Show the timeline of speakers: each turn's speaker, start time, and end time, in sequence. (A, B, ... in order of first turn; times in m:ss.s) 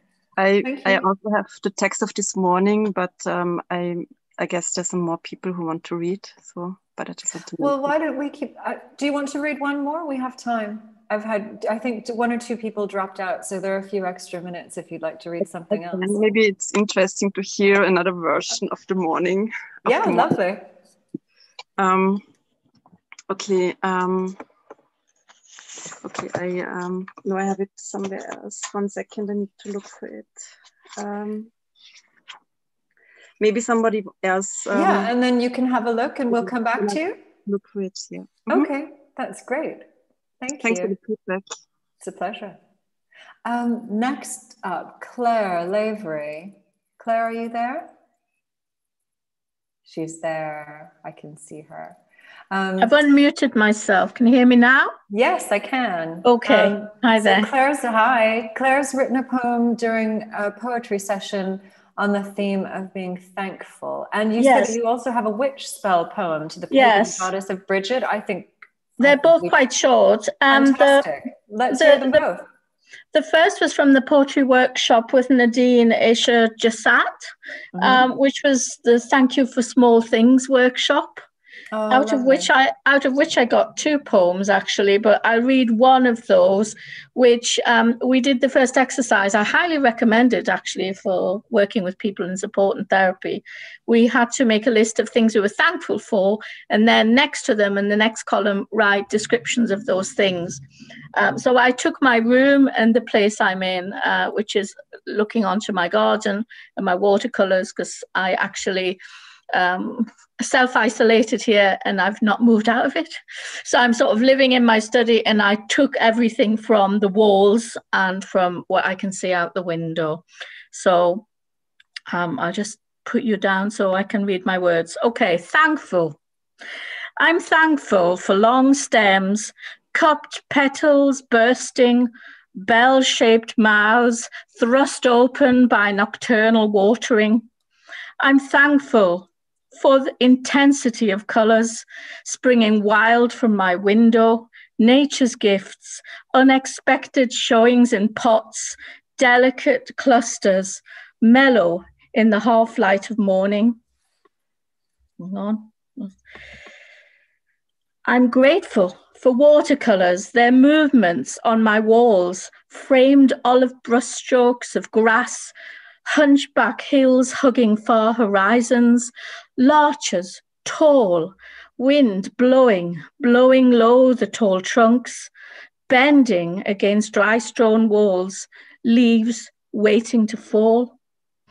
0:00.4-0:07.8 A
0:00.6-0:01.1 B
0:07.6-0:16.2 B
0:15.9-0:20.3 A
0:19.8-0:20.7 B
0:21.8-0:22.2 A
0:23.3-0:24.4 A
0:26.0-0:30.4 A
0:31.0-0:31.5 A
0:33.4-0:35.1 A
0:34.7-0:37.2 B
0:36.5-0:38.7 A
0:38.5-0:39.9 B
0:40.4-0:41.0 B
0:40.6-0:41.5 A
0:42.0-0:42.6 B
0:43.4-0:47.9 B
0:49.9-0:52.0 B
0:52.5-0:53.0 B
0:52.8-0:54.9 C
0:55.1-1:09.6 B
0:56.2-0:57.5 C
1:04.4-1:04.8 C
1:06.7-1:07.3 C
1:09.0-1:11.1 C
1:10.5-1:12.4 B
1:11.7-1:12.2 C
1:13.1-1:21.2 C
1:17.8-1:18.1 B
1:21.7-1:22.5 B
1:21.9-1:40.6 C
1:41.2-1:49.0 C
1:49.5-2:01.3 C
2:02.1-2:06.2 C
2:07.2-2:17.5 C
2:18.2-2:33.8 C
2:35.2-2:36.2 C
2:38.0-2:45.5 C
2:46.1-2:55.3 C
2:55.9-3:01.0 C